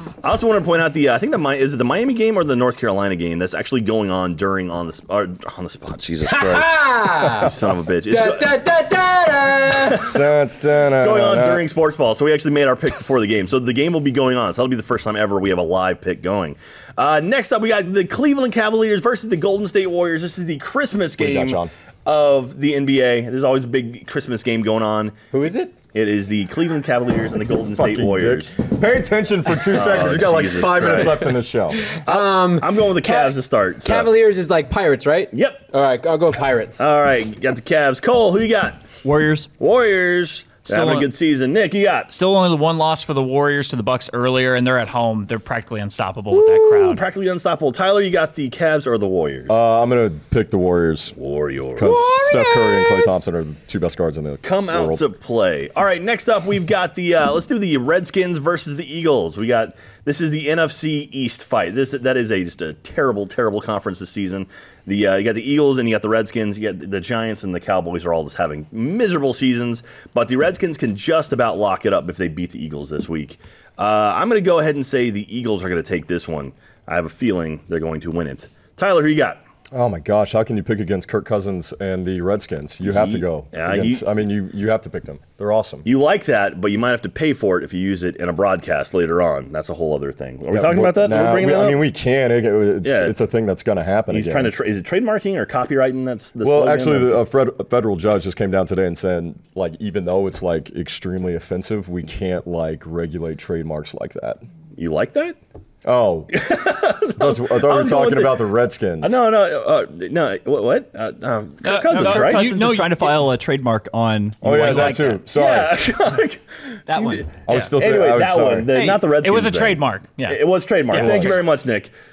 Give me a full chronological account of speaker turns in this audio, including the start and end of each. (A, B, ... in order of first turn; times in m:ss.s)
0:00.2-0:06.7 A
0:06.3-0:07.5 B
0:07.3-0:08.6 A
0:08.1-0:10.1 B
0:09.8-0:10.2 A
0:10.0-0:11.6 C
0:11.0-0:25.2 A
0:21.2-0:21.7 C
0:25.3-0:25.7 B
0:25.9-0:28.6 A
0:27.8-0:31.8 C
0:29.7-0:31.3 A
0:31.8-0:36.8 B
0:32.1-0:34.1 A
0:35.3-0:35.6 A
0:36.8-0:38.8 A
0:39.0-0:39.5 D
0:39.6-0:42.1 A
0:40.7-0:41.1 D
0:42.1-0:47.0 E
0:46.3-0:49.5 A
0:49.5-0:51.2 C
0:51.2-0:52.1 A
0:51.8-0:55.0 C
0:51.8-0:53.2 B
0:54.4-1:19.4 A
1:19.7-1:25.9 C
1:22.8-1:24.1 A
1:25.8-1:31.9 A
1:30.5-1:34.5 C
1:32.8-1:33.2 A
1:34.1-1:37.2 A
1:36.4-1:44.4 C
1:44.8-1:45.4 A
1:45.8-1:46.4 C
1:46.3-1:48.5 A
1:47.2-1:49.2 C
1:49.0-1:52.5 A
1:51.6-1:53.2 E
1:51.9-1:55.2 D
1:54.4-1:56.0 C
1:54.5-1:55.2 E
1:54.8-2:01.9 A
1:56.9-1:57.4 D
1:57.5-1:58.7 C
1:58.8-2:01.3 E
2:00.9-2:01.3 B
2:01.0-2:01.4 C